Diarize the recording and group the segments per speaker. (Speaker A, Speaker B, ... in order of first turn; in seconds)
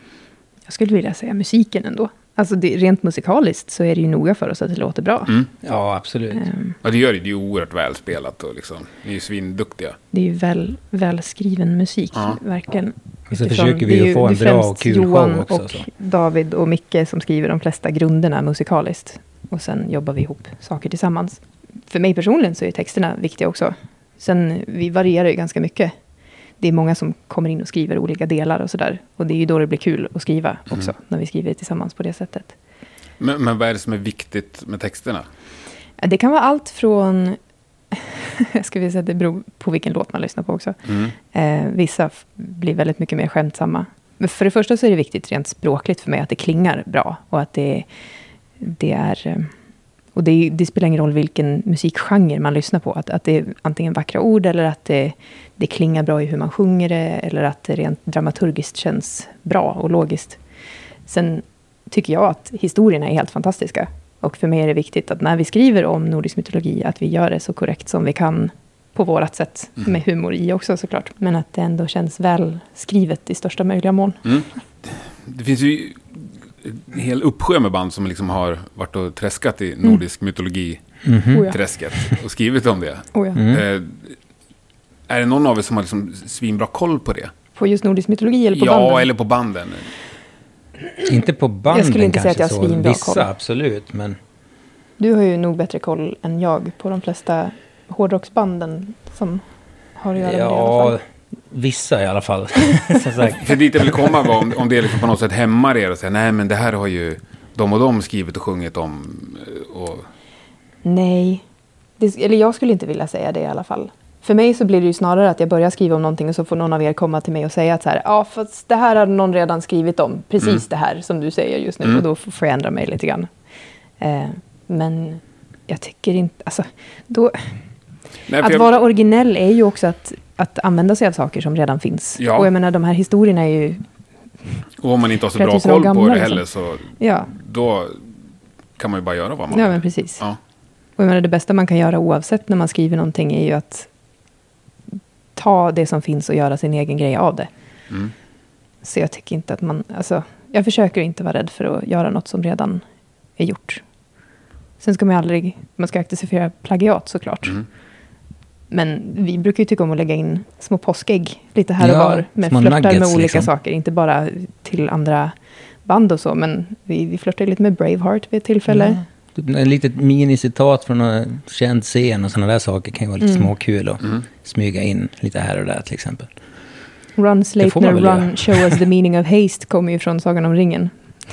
Speaker A: 0.7-5.3, 6.3-6.7, 10.1-25.9, 26.6-32.5, 36.0-37.4, 37.9-47.9, 48.6-49.5, 50.1-60.4, 61.1-74.2, 81.3-81.6, 83.1-83.4, 87.5-89.1, 91.7-93.3, 95.0-99.4, 100.0-101.0, 110.8-111.4, 112.0-123.3, 124.0-127.5, 128.4-133.8, 135.3-136.4, 137.0-137.3, 139.5-140.2, 141.0-143.9, 145.3-147.5, 148.8-152.8, 153.4-153.8, 154.8-157.6, 158.7-165.3, 165.8-169.0, 173.2-173.5, 177.2-180.9
Speaker B: 5.6-6.5, 13.3-15.9, 81.0-81.5, 83.3-83.6, 91.0-94.2, 100.2-104.2, 161.8-163.5, 168.8-176.3, 177.6-178.8
Speaker C: 6.8-10.0, 33.2-35.2, 40.9-41.1, 74.2-80.8, 81.5-84.1, 85.1-87.3, 88.5-89.9, 103.4-110.1, 128.3-128.8, 132.2-132.5, 134.8-138.0, 138.8-140.4